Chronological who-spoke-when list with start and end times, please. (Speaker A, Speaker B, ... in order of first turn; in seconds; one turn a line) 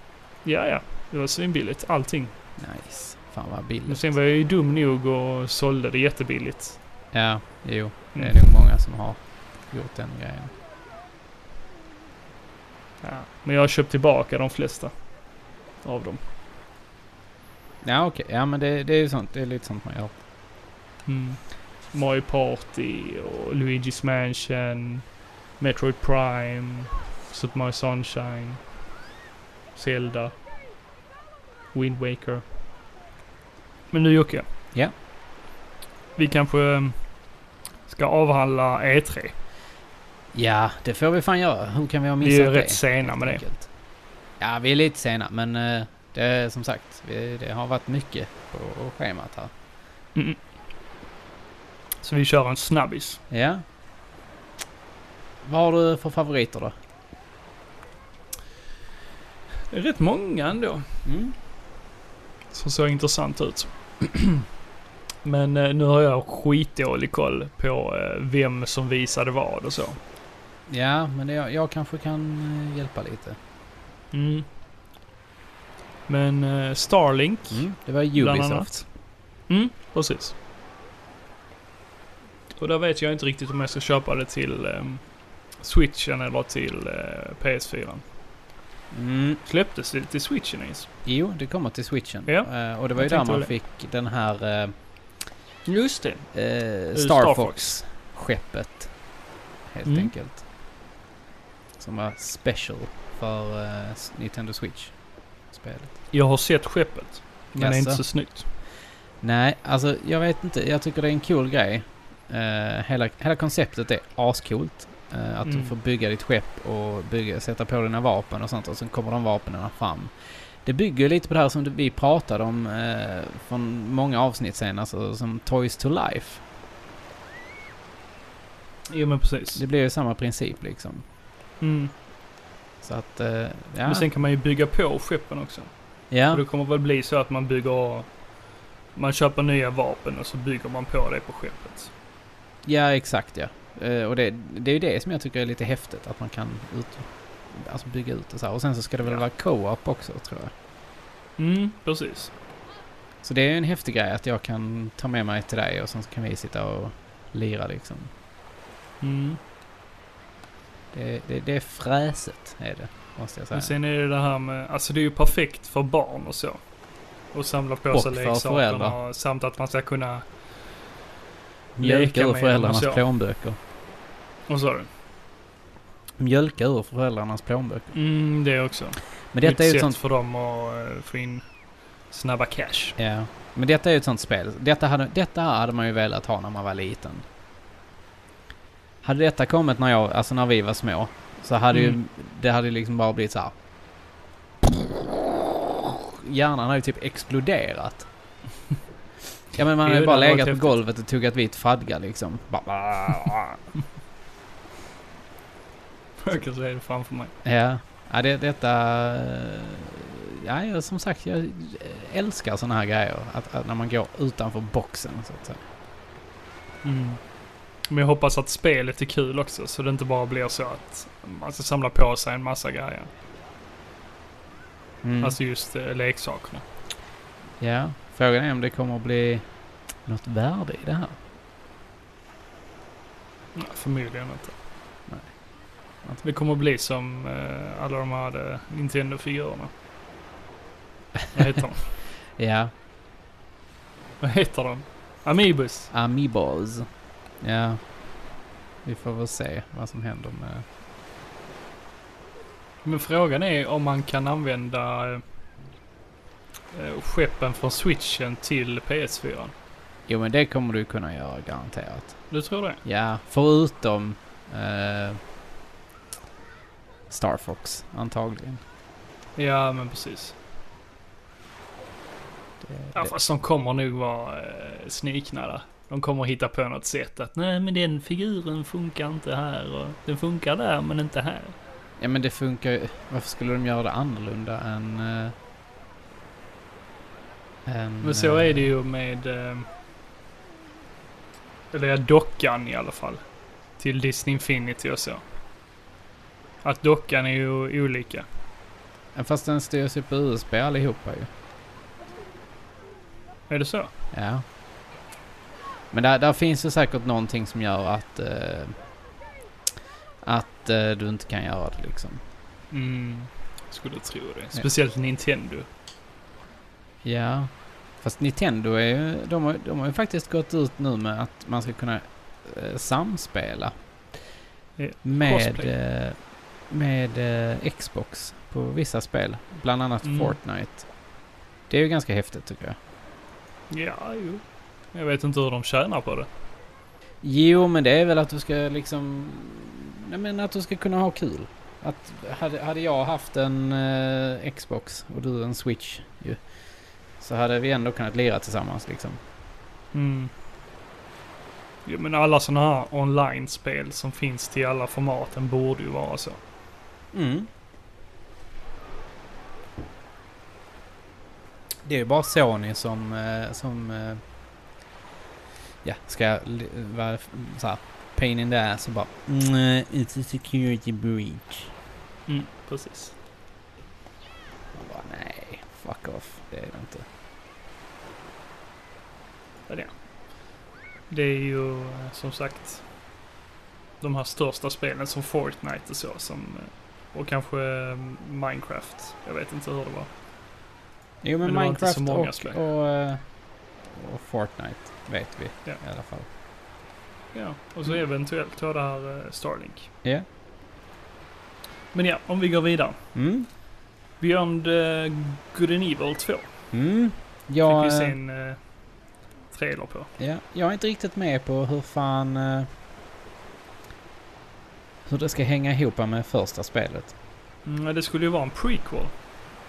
Speaker A: 0.4-2.3
Speaker B: 2.6-4.1
Speaker A: 3.9-6.8
Speaker B: 7.1-10.5
Speaker A: 8.1-8.5
Speaker A: 13.0-14.9
Speaker A: 15.8-16.2
Speaker B: 17.8-20.1
Speaker A: 21.1-28.6
Speaker A: 29.7-30.3
Speaker A: 31.7-32.4
Speaker A: 33.9-34.4
Speaker A: 36.2-37.0
Speaker A: 37.9-39.3
Speaker B: 40.3-43.7
Speaker A: 42.2-43.4
Speaker B: 44.4-49.5
Speaker A: 50.1-50.4
Speaker A: 52.0-53.2
Speaker B: 53.3-53.6
Speaker B: 55.4-56.7
Speaker A: 59.7-61.0
Speaker B: 61.0-61.3
Speaker A: 62.5-64.4
Speaker A: 65.2-70.0
Speaker B: 70.7-73.4
Speaker A: 74.1-74.5
Speaker A: 76.1-78.9
Speaker B: 77.5-78.8
Speaker A: 79.5-80.3
Speaker A: 82.6-85.0
Speaker A: 85.6-88.0
Speaker B: 88.9-89.4
Speaker A: 89.4-90.9
Speaker B: 91.0-94.7
Speaker A: 92.3-93.5
Speaker A: 95.6-96.3
Speaker B: 96.3-98.9
Speaker A: 96.8-97.8
Speaker B: 99.7-100.4
Speaker A: 99.8-100.1
Speaker B: 101.8-105.0
Speaker B: 105.5-106.0
Speaker A: 106.1-108.5
Speaker B: 107.6-108.0
Speaker B: 109.2-120.1
Speaker A: 115.4-115.7
Speaker B: 120.6-126.4
Speaker A: 128.9-129.6
Speaker B: 129.6-131.0
Speaker A: 131.6-131.9
Speaker B: 132.8-134.1
Speaker A: 133.8-135.7
Speaker B: 136.1-136.4
Speaker A: 136.3-138.1
Speaker A: 138.9-141.9
Speaker B: 142.6-150.5
Speaker A: 151.4-152.3
Speaker B: 153.2-158.1
Speaker A: 159.0-159.4
Speaker B: 160.9-163.7
Speaker A: 163.5-166.6
Speaker A: 167.3-170.3
Speaker B: 167.9-168.9
Speaker B: 171.8-173.6
Speaker A: 171.8-173.0
Speaker A: 174.5-174.9
Speaker B: 176.2-177.9
Speaker A: 177.9-181.4
Speaker B: 179.3-180.0
Speaker A: 182.1-182.9
Speaker B: 183.0-187.2
Speaker B: 189.0-193.5
Speaker A: 191.7-192.0
Speaker B: 195.8-198.1
Speaker B: 199.5-203.6
Speaker A: 199.8-200.8
Speaker A: 206.2-207.3
Speaker B: 207.4-215.6
Speaker A: 216.8-217.2
Speaker A: 217.9-223.1
Speaker B: 225.0-225.4
Speaker A: 225.2-226.6
Speaker B: 227.6-229.4
Speaker B: 230.1-231.2
Speaker A: 233.5-234.5
Speaker A: 236.2-239.7
Speaker A: 241.3-241.9
Speaker B: 242.4-242.7
Speaker A: 244.2-245.9
Speaker B: 245.9-246.9
Speaker B: 247.4-247.8
Speaker B: 248.8-250.6
Speaker A: 252.8-255.2
Speaker A: 256.7-259.5
Speaker B: 260.1-262.2
Speaker A: 262.3-262.8
Speaker B: 262.8-265.2
Speaker B: 267.1-268.6
Speaker A: 269.4-270.3
Speaker B: 272.6-273.1
Speaker A: 272.9-281.6
Speaker B: 282.0-285.3
Speaker B: 287.6-288.7
Speaker A: 288.0-289.7
Speaker A: 291.7-293.2
Speaker A: 293.8-295.2
Speaker A: 296.6-298.2
Speaker B: 299.1-301.3
Speaker A: 303.5-303.9
Speaker B: 304.1-304.4
Speaker B: 305.9-308.8
Speaker B: 310.2-312.2
Speaker A: 312.7-315.7
Speaker B: 317.0-323.7
Speaker A: 324.8-325.7
Speaker B: 325.0-326.2
Speaker B: 326.7-330.8
Speaker A: 330.0-330.4
Speaker B: 331.7-332.8
Speaker A: 333.7-336.3
Speaker B: 337.2-346.4
Speaker B: 347.2-349.2
Speaker A: 349.9-350.3
Speaker A: 351.9-356.4
Speaker B: 357.1-357.5
Speaker B: 361.8-364.2
Speaker B: 365.8-371.7
Speaker A: 372.3-373.1
Speaker B: 374.7-377.1
Speaker A: 381.1-382.8
Speaker A: 384.0-390.1
Speaker B: 391.2-393.2
Speaker A: 391.4-392.6
Speaker B: 393.8-396.3
Speaker A: 397.3-399.9
Speaker A: 401.9-403.0
Speaker B: 403.1-403.5
Speaker A: 404.2-406.4
Speaker B: 406.7-408.1
Speaker A: 407.6-408.6
Speaker A: 409.5-410.1
Speaker B: 410.2-412.7
Speaker B: 415.1-417.1
Speaker A: 417.6-419.1